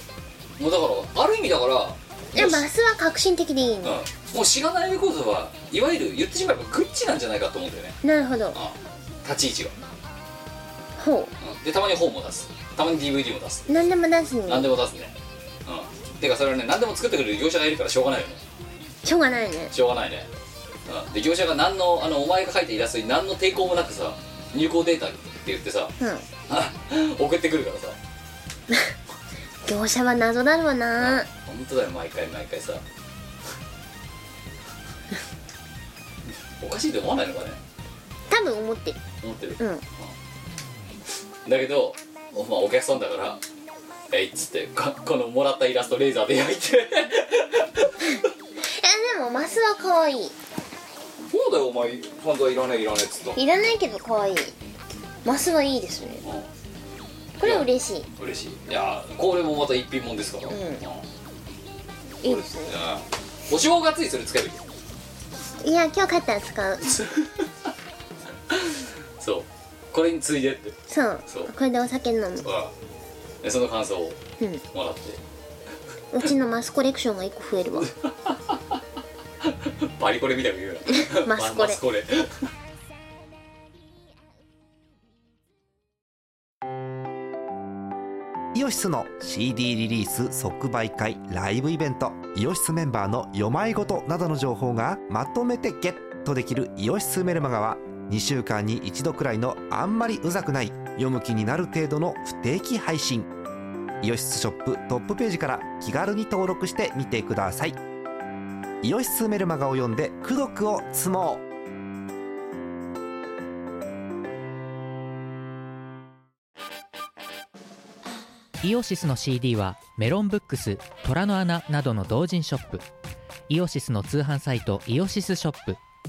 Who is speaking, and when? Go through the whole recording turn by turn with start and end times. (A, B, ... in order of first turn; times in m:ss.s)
0:00.6-0:02.7 A
0:02.4-0:04.0 B
0:03.8-0:08.0 A
0:08.0-0:08.6 B
0:08.5-0:09.8 A
0:11.0-0:11.3 B
0:11.4-0:13.7 A
0:13.7-0:14.7 B
0:14.5-0:18.4 A
0:19.0-0:19.7 B
0:19.7-0:20.3 A
0:20.9-0:25.9 A
0:26.0-0:26.2 B
0:26.5-0:28.0 A
0:29.7-0:31.3 B
0:31.0-0:32.8 A
0:36.6-0:37.6 A
0:38.3-0:39.0 B
0:39.2-0:40.2 A
0:39.6-0:39.8 B
0:41.4-0:43.4 A
0:44.1-0:48.2 A
0:48.6-0:50.4 B
0:51.3-0:53.4 A
0:53.4-0:54.6 B
0:55.2-0:56.2 B
0:56.2-0:56.5 A
0:57.4-0:58.1 B
0:57.4-1:01.1 A
1:00.5-1:00.8 B
1:02.2-1:04.6 A
1:02.2-1:02.8 B
1:05.6-1:07.0 B
1:06.9-1:07.5 A
1:08.5-1:10.8 A
1:10.9-1:12.5 B
1:12.4-1:12.7 A
1:13.4-1:14.2 A
1:14.7-1:15.2 A
1:16.1-1:17.9 B
1:17.8-1:18.8 A
1:19.4-1:22.5 A
1:20.9-1:21.8 B
1:28.5-1:43.3 C
1:44.0-1:47.8 C
1:48.8-1:51.4 C
1:58.6-2:02.8 D
2:03.5-2:05.8 D